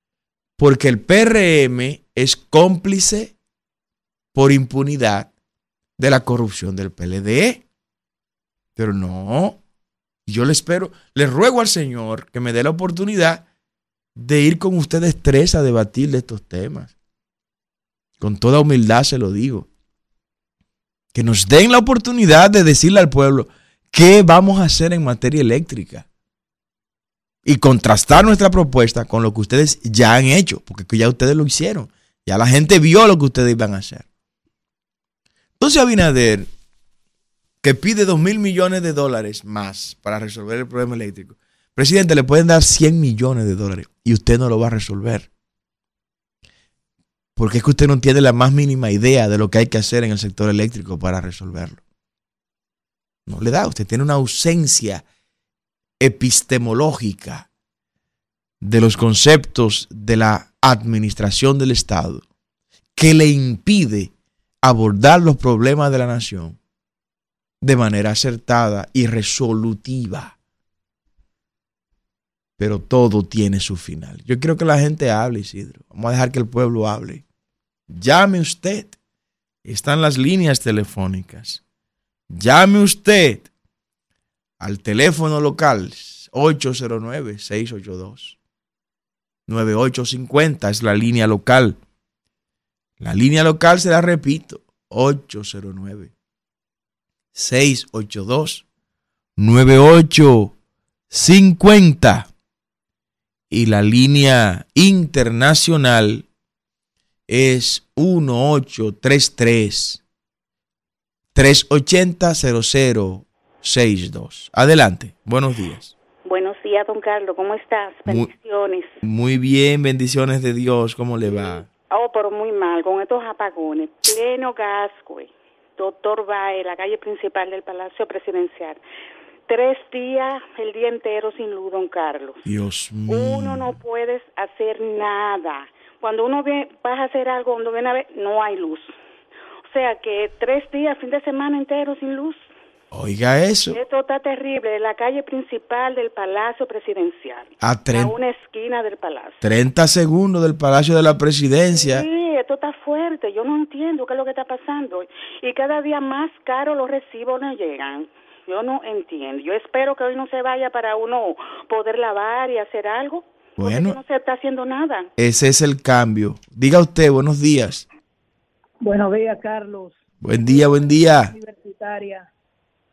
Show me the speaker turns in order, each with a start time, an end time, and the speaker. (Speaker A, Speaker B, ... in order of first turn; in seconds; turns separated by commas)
Speaker A: 0.6-3.3, Speaker A: 4.3-5.3, Speaker A: 6.0-7.6, Speaker A: 8.8-9.6, Speaker A: 10.2-13.4, Speaker A: 14.2-16.9, Speaker A: 18.2-19.7, Speaker A: 21.1-26.0, Speaker A: 27.4-34.0, Speaker A: 35.6-36.5, Speaker A: 37.6-45.3, Speaker A: 47.4-51.8, Speaker A: 53.3-55.0, Speaker A: 56.0-57.5, Speaker A: 58.6-62.2, Speaker A: 63.0-64.1, Speaker A: 64.6-66.6, Speaker A: 67.6-70.3, Speaker A: 72.6-77.2, Speaker A: 77.9-78.9, Speaker A: 79.6-81.6, Speaker A: 82.3-83.5, Speaker A: 84.6-88.4, Speaker A: 89.5-91.8, Speaker A: 93.0-96.1, Speaker A: 97.3-98.6, Speaker A: 99.4-100.5, Speaker A: 101.1-102.3, Speaker A: 103.5-106.2, Speaker A: 107.3-110.0, Speaker A: 111.3-115.9, Speaker B: 116.2-119.0, Speaker A: 119.0-121.7, Speaker B: 121.9-128.8, Speaker B: 129.5-132.4, Speaker A: 132.4-133.8, Speaker B: 133.1-138.9, Speaker B: 139.7-142.5, Speaker A: 142.9-143.8, Speaker B: 143.7-149.4, Speaker A: 147.6-148.1, Speaker A: 149.4-152.1, Speaker B: 151.7-165.1, Speaker A: 163.6-164.0, Speaker A: 165.2-167.8, Speaker C: 168.8-172.3, Speaker A: 170.2-171.3